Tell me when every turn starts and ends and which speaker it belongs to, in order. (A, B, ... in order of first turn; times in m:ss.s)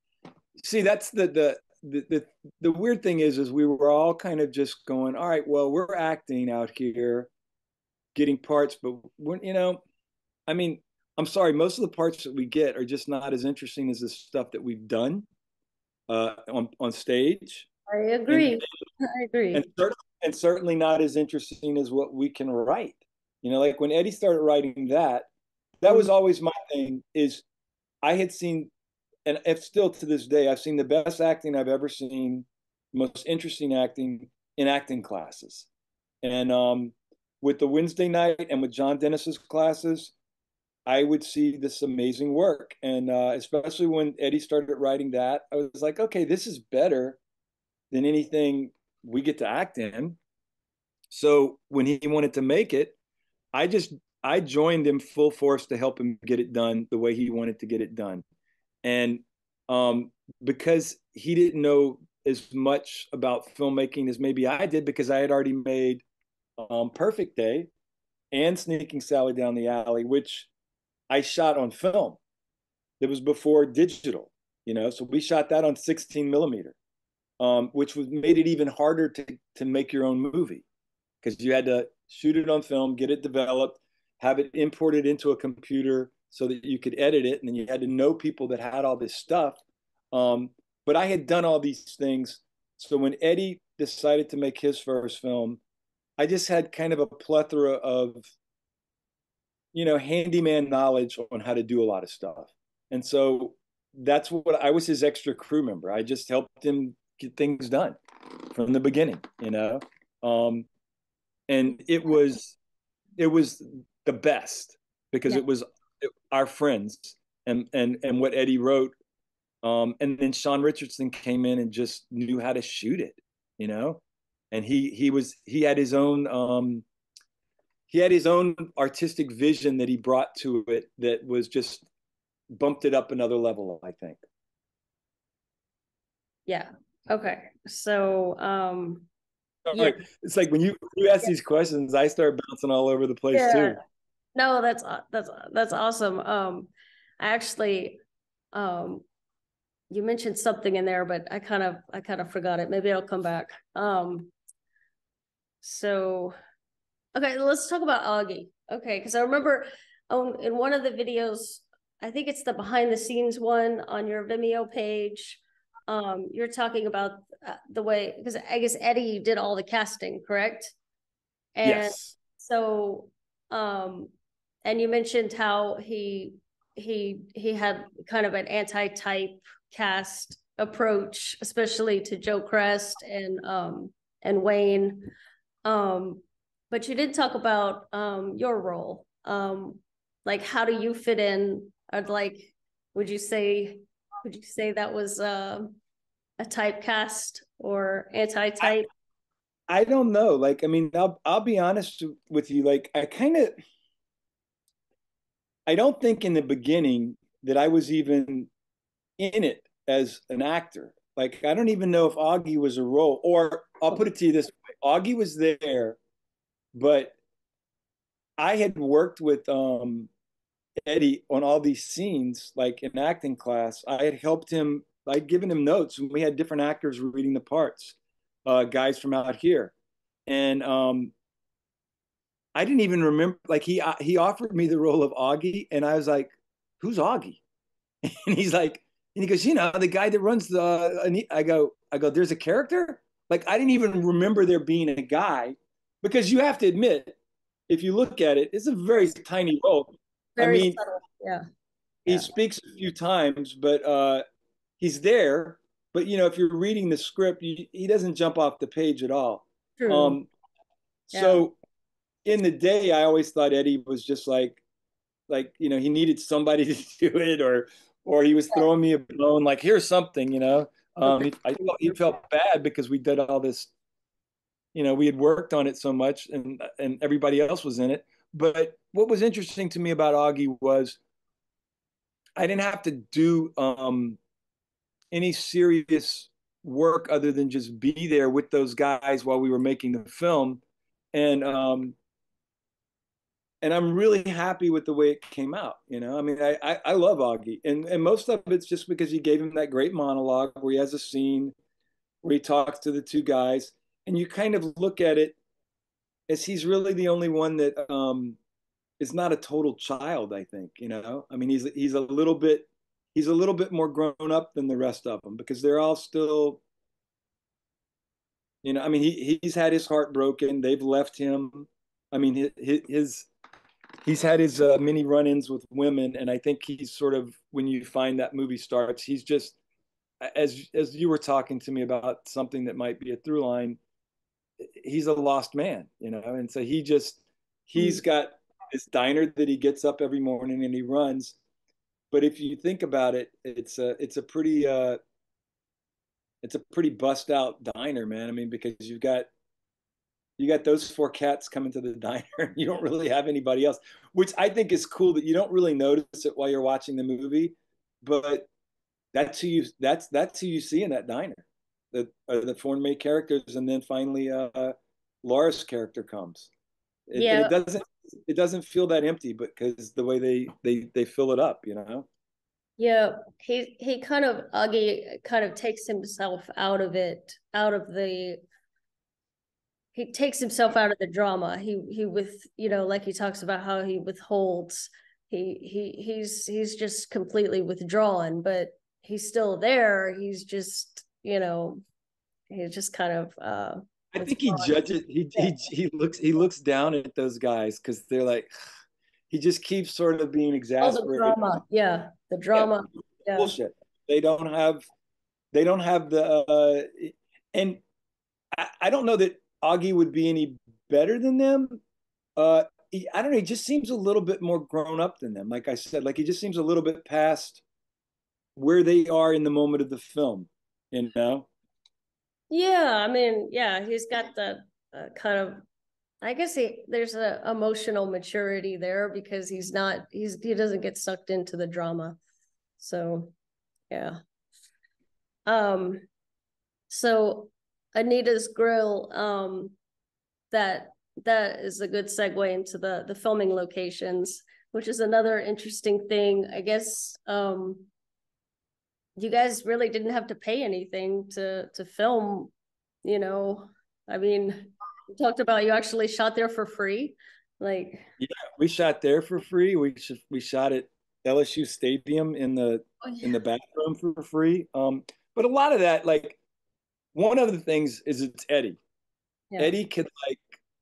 0:00.6-0:07.3 A
0:08.1-0:09.8 A
0:10.5-0:15.2 A
0:16.1-0:17.7 A
0:17.9-0:19.6 B
0:18.3-0:18.6 A
0:19.5-0:25.3 A
0:25.8-0:27.4 A
0:28.0-0:28.7 A
0:29.2-0:35.7 A
0:36.2-0:40.1 A
0:40.8-0:47.2 A
0:47.9-0:50.2 A
0:51.1-0:53.0 A
0:53.5-0:58.2 A
0:58.8-1:06.0 A
1:06.6-1:07.7 A
1:08.3-1:10.5 A
1:11.1-1:12.2 A
1:13.0-1:16.8 A
1:17.4-1:20.6 A
1:21.2-1:29.6 A
1:30.1-1:35.6 A
1:36.2-1:38.3 A
1:39.7-1:48.0 A
1:48.5-1:50.7 A
1:51.5-1:52.6 A
1:53.2-1:58.9 A
1:59.6-2:04.0 A
2:04.5-2:06.8 A
2:07.9-2:11.9 A
2:12.6-2:14.2 A
2:16.5-2:19.1 B
2:19.7-2:23.8 A
2:23.3-2:23.8 B
2:24.4-2:28.0 B
2:28.5-2:29.0 B
2:29.9-2:34.3 B
2:35.6-2:36.3 B
2:37.1-2:50.7 B
2:51.6-2:54.1 B
2:51.6-2:52.1 A
2:54.6-3:05.1 B
3:05.6-3:15.8 B
3:16.4-3:18.8 B
3:19.7-3:23.5 A
3:25.7-3:28.5 A
3:29.2-3:36.0 A
3:36.7-3:37.2 A
3:38.4-3:40.1 A
3:40.8-3:49.7 A
3:50.3-3:51.1 A
3:52.5-3:57.4 A
3:58.0-4:07.2 A
4:07.7-4:10.8 A
4:10.4-4:11.4 B
4:12.0-4:12.3 B
4:12.0-4:14.2 A
4:14.8-4:20.3 A
4:19.8-4:20.2 B
4:21.1-4:21.5 A
4:21.1-4:21.4 B
4:22.2-4:24.6 A
4:25.3-4:33.7 A
4:31.0-4:32.0 B
4:34.7-4:41.0 A
4:42.4-4:44.2 A
4:45.1-4:50.6 A
4:51.1-4:52.0 A
4:53.6-5:01.5 A
5:02.2-5:05.4 A
5:06.3-5:08.4 A
5:09.0-5:16.6 A
5:18.6-5:23.3 A
5:24.0-5:29.6 A
5:30.2-5:33.8 A
5:34.6-5:41.4 A
5:37.8-5:38.0 B
5:42.1-5:45.0 A
5:46.4-5:49.3 A
5:50.4-5:58.5 A
5:59.1-6:06.5 A
6:07.1-6:12.1 A
6:07.1-6:07.5 B
6:12.8-6:18.4 B
6:19.9-6:31.8 B
6:32.5-6:35.5 B
6:34.1-6:38.5 A
6:39.3-6:41.6 A
6:40.8-6:43.5 B
6:43.3-6:44.8 A
6:45.5-6:47.8 A
6:48.5-6:51.8 A
6:52.4-6:57.6 A
6:58.6-7:01.5 A
7:02.5-7:05.6 B
7:06.2-7:12.2 B
7:12.8-7:13.3 B
7:13.9-7:14.2 B
7:15.5-7:16.0 B
7:16.9-7:19.8 B
7:20.5-7:27.9 B
7:29.2-7:32.5 B
7:33.0-7:38.1 B
7:38.2-7:46.4 A
7:43.0-7:43.4 B
7:47.1-7:48.8 A
7:49.6-7:50.6 A